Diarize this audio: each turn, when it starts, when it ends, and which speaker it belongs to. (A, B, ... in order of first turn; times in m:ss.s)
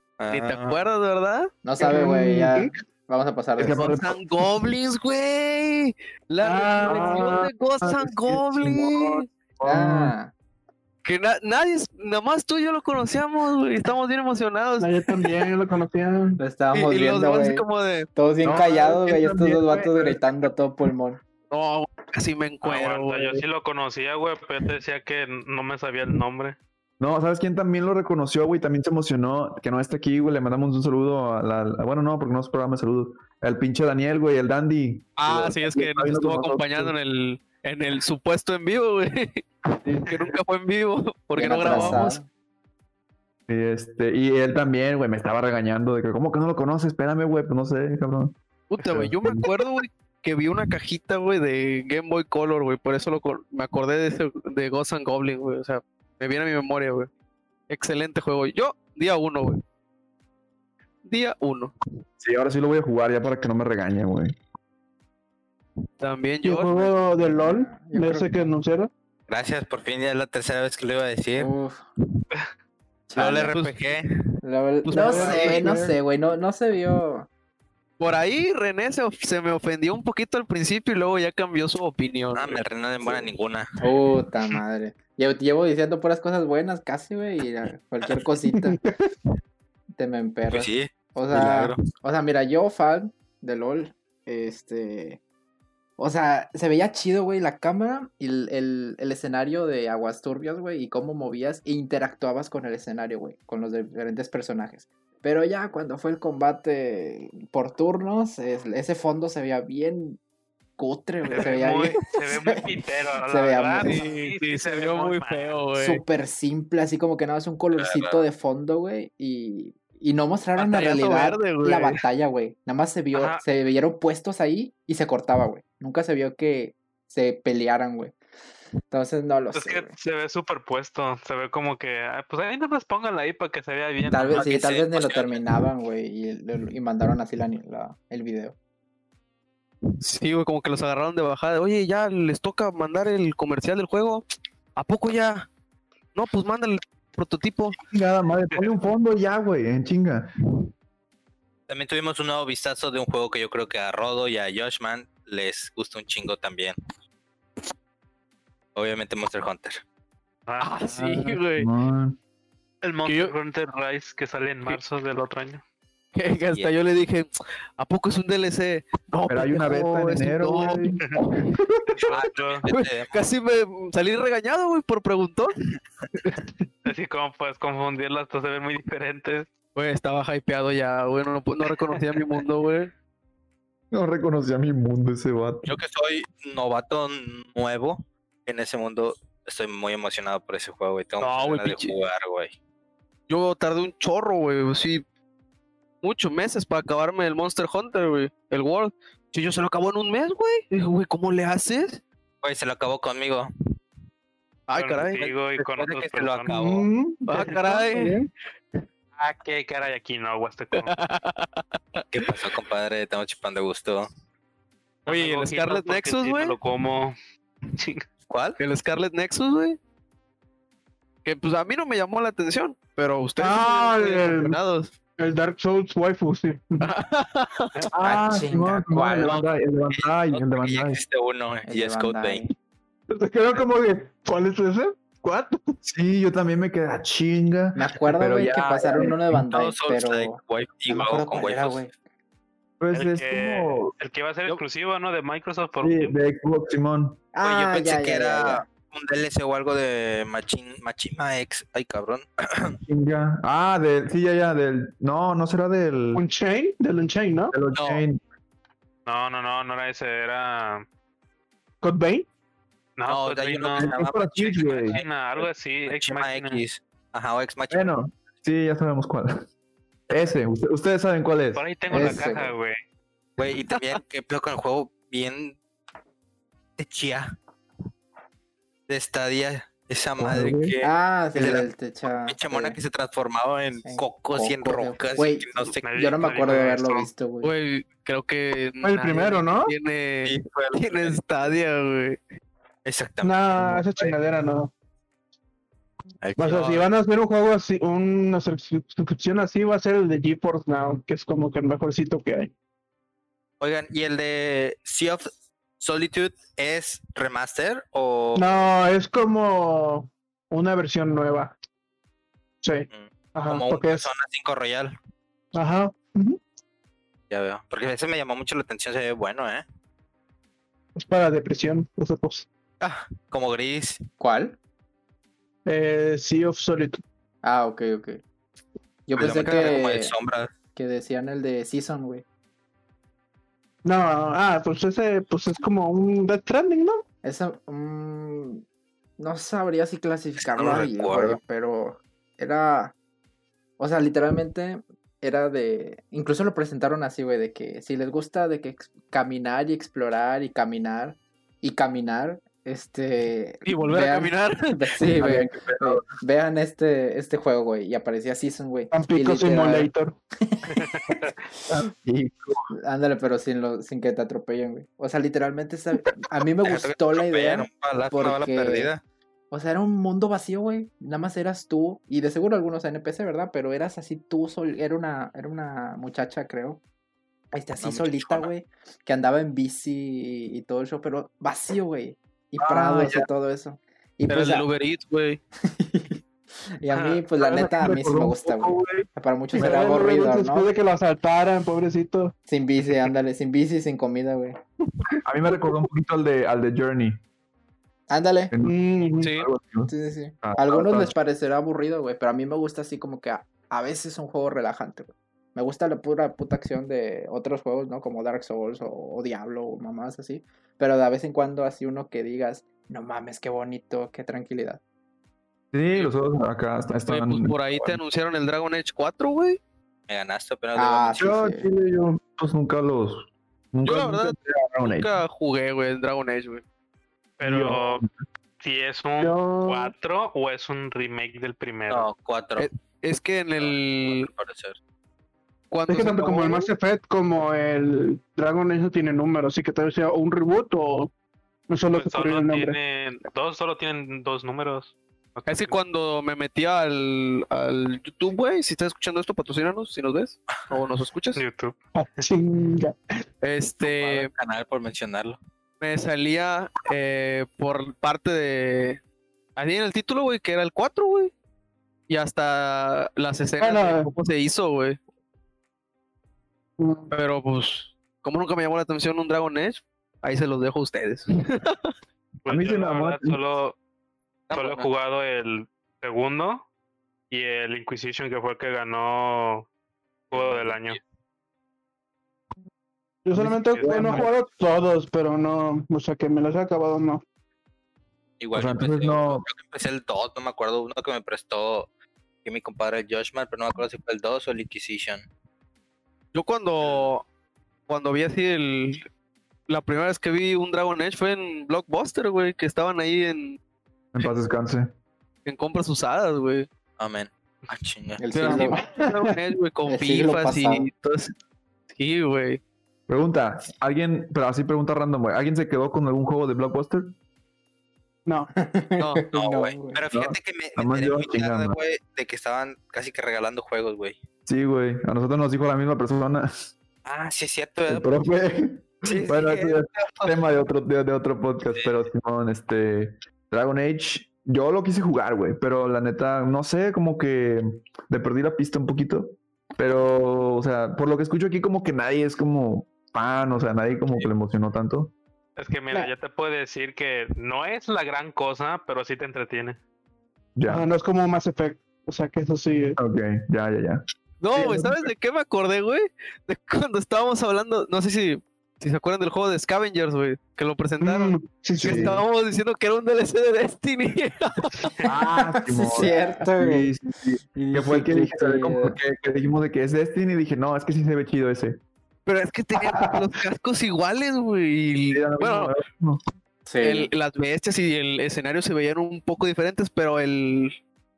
0:00.2-0:00.8 A
0:00.3-0:01.6 B
0:01.6-0:04.0 C
0:01.8-0:02.8 D
0:03.6-0:04.2 E
0:03.8-0:09.3 B
0:06.4-0:07.5 D
0:06.9-0:10.1 E
0:09.6-0:10.3 C
0:11.0-0:15.5 B
0:14.8-0:16.4 D
0:16.4-0:17.6 C
0:16.7-0:19.3 B
0:18.2-0:21.2 C
0:19.2-0:20.2 E
0:21.5-0:23.4 B
0:22.6-0:26.6 F
0:27.0-0:36.9 E
0:35.2-0:42.2 B
0:41.4-0:42.3 C
0:41.6-0:42.0 E
0:43.5-0:49.6 E
0:48.7-0:57.1 B
0:57.7-0:59.6 B
1:01.0-1:01.7 B
1:02.2-1:04.3 E
1:06.0-1:06.9 B
1:06.4-1:08.9 D
1:07.1-1:08.5 C
1:09.3-1:11.5 A
1:11.4-1:11.8 C
1:13.1-1:13.5 C
1:13.2-1:14.1 A
1:13.2-1:13.8 B
1:14.4-1:17.3 C
1:14.8-1:15.8 B
1:14.9-1:16.0 D
1:18.0-1:22.6 B
1:22.4-1:23.7 A
1:23.0-1:23.3 C
1:23.8-1:28.8 C
1:28.5-1:29.0 D
1:30.0-1:35.2 C
1:30.5-1:31.8 A
1:36.0-1:50.2 C
1:50.8-1:54.0 C
1:51.3-1:55.6 F
1:53.8-1:56.0 B
1:55.8-2:08.2 C
1:57.8-1:58.2 A
2:00.6-2:02.0 B
2:03.1-2:03.4 F
2:08.9-2:10.0 C
2:09.6-2:14.5 F
2:14.1-2:18.6 C
2:14.3-2:15.5 A
2:20.0-2:24.2 B
2:24.8-2:25.5 B
2:26.1-2:27.8 B
2:27.8-2:30.3 E
2:31.7-2:36.8 A
2:38.8-2:39.8 A
2:40.5-2:40.8 F
2:40.6-2:41.7 B
2:41.0-2:42.2 E
2:42.8-2:45.6 F
2:43.0-2:43.4 B
2:46.1-2:51.5 B
2:49.3-2:51.0 E
2:52.1-2:52.7 F
2:52.1-2:53.2 A
2:52.7-2:55.6 B
2:56.2-2:56.4 B
2:56.9-2:59.5 F
2:59.8-3:02.9 B
3:03.9-3:05.7 E
3:05.6-3:12.5 A
3:11.2-3:12.0 B
3:13.3-3:15.0 B
3:16.0-3:22.0 B
3:22.4-3:23.5 A
3:24.7-3:25.2 B
3:24.7-3:26.5 F
3:25.2-3:26.9 A
3:26.5-3:28.3 D
3:27.3-3:28.2 B
3:29.2-3:30.9 F
3:30.8-3:32.5 B
3:32.1-3:34.1 A
3:35.1-3:37.2 F
3:35.1-3:36.6 B
3:37.7-3:38.0 F
3:38.3-3:38.6 A
3:38.6-3:39.8 B
3:41.2-3:44.9 B
3:43.4-3:44.6 D
3:45.2-3:46.9 D
3:46.8-3:47.9 B
3:47.9-3:51.0 E
3:48.0-3:49.4 C
3:49.9-3:52.5 A
3:51.7-3:52.5 C
3:53.1-3:55.8 D
3:55.8-3:59.5 E
3:57.8-4:01.9 C
3:59.5-4:01.9 A
4:02.8-4:03.9 E
4:02.9-4:06.2 F
4:05.8-4:07.2 E
4:07.3-4:08.6 C
4:07.4-4:12.8 A
4:12.9-4:16.2 E
4:16.2-4:17.6 D
4:17.5-4:18.2 E
4:17.7-4:18.0 B
4:19.1-4:20.8 F
4:21.8-4:22.3 D
4:23.0-4:24.0 F
4:23.1-4:27.9 A
4:23.7-4:25.0 E
4:24.8-4:26.6 F
4:27.7-4:29.5 E
4:30.1-4:31.6 E
4:31.6-4:32.8 F
4:31.9-4:32.5 C
4:33.4-4:35.6 A
4:36.8-4:37.3 A
4:38.9-4:41.7 A
4:40.2-4:40.7 E
4:40.8-4:42.8 C
4:42.3-4:45.8 A
4:43.8-4:47.5 C
4:45.8-4:47.1 F
4:47.4-4:52.2 B
4:48.8-4:49.7 D
4:50.2-4:51.5 A
4:52.8-4:54.1 A
4:53.2-4:54.7 D
4:56.2-4:56.9 A
4:56.4-5:02.5 D
5:03.6-5:08.6 A
5:08.4-5:11.5 D
5:12.6-5:14.1 D
5:12.9-5:15.0 A
5:15.5-5:16.4 D
5:17.3-5:19.6 A
5:21.0-5:22.4 D
5:22.8-5:24.0 A
5:24.2-5:24.6 C
5:25.7-5:27.0 D
5:27.4-5:28.2 C
5:29.1-5:30.2 C
5:29.2-5:30.5 A
5:30.8-5:32.2 C
5:33.8-5:37.0 D
5:37.2-5:38.6 C
5:39.2-5:42.9 C
5:40.4-5:41.4 A
5:43.8-6:01.3 C
5:53.6-5:54.8 B
5:55.2-5:56.1 E
5:58.9-6:00.2 D
6:00.7-6:01.3 F
6:01.7-6:02.7 E
6:02.8-6:08.9 C
6:06.6-6:09.0 A
6:09.5-6:16.8 C
6:17.5-6:24.7 C
6:17.8-6:18.5 A
6:22.6-6:23.1 B
6:24.3-6:25.4 B
6:25.6-6:26.2 C
6:26.8-6:30.7 C
6:26.9-6:27.3 F
6:27.4-6:30.0 E
6:29.5-6:32.3 D
6:32.5-6:34.6 C
6:35.2-6:37.2 E
6:35.5-6:35.7 D
6:38.1-6:38.5 C
6:38.5-6:39.9 E
6:38.6-6:39.3 D
6:39.2-6:39.5 B
6:39.9-6:54.8 C
6:40.4-6:41.1 E
6:55.7-6:58.0 E
6:57.1-6:59.6 B
7:00.1-7:01.2 A
7:00.8-7:01.7 C
7:01.2-7:05.2 E
7:03.8-7:06.6 B
7:07.4-7:08.0 F
7:07.4-7:08.1 E
7:08.6-7:12.1 F
7:09.2-7:09.9 D
7:11.9-7:12.7 A
7:12.6-7:14.3 B
7:13.6-7:14.8 A
7:15.7-7:16.7 B
7:15.9-7:21.1 D
7:21.7-7:22.8 D
7:21.9-7:25.8 F
7:25.5-7:31.4 B
7:31.4-7:32.2 F
7:32.0-7:33.0 D
7:33.4-7:34.3 B
7:33.8-7:35.4 A
7:35.8-7:39.0 B
7:39.6-7:41.3 B
7:42.1-7:45.0 B
7:43.6-7:44.1 D
7:46.8-7:47.1 D
7:47.1-7:51.8 B
7:52.4-7:53.8 F
7:52.5-7:53.4 E
7:54.5-7:54.9 A
7:54.5-7:56.6 F
7:57.3-7:59.7 F
8:00.3-8:01.0 F
8:00.3-8:01.0 A
8:03.2-8:07.2 D
8:03.3-8:04.3 E
8:03.7-8:04.3 F
8:08.4-8:11.9 A
8:08.5-8:09.5 E
8:12.4-8:15.2 A
8:16.3-8:17.3 B
8:16.8-8:17.1 A
8:17.9-8:19.1 B
8:19.7-8:23.6 B
8:24.1-8:24.9 E
8:25.4-8:26.7 B
8:27.0-8:28.2 A
8:28.2-8:28.8 C
8:28.3-8:31.3 B
8:28.5-8:29.4 D
8:29.9-8:30.9 C
8:31.9-8:32.6 B
8:33.1-8:37.2 E
8:38.6-8:40.0 C
8:39.3-8:44.2 A
8:40.1-8:41.8 E
8:44.5-8:46.7 E
8:47.0-8:48.2 A
8:47.9-9:05.1 E
8:49.1-8:49.7 A
8:50.0-8:50.3 B
9:05.6-9:09.8 F
9:10.6-9:10.8 E
9:10.7-9:13.0 D
9:13.0-9:14.0 E
9:14.4-9:25.0 B
9:14.5-9:15.1 E
9:21.0-9:22.2 D
9:21.8-9:22.2 E
9:25.0-9:31.8 E
9:25.3-9:26.9 C
9:27.6-9:29.0 C
9:32.3-9:35.8 B
9:35.1-9:36.2 E
9:36.7-9:37.1 C
9:36.8-9:40.8 B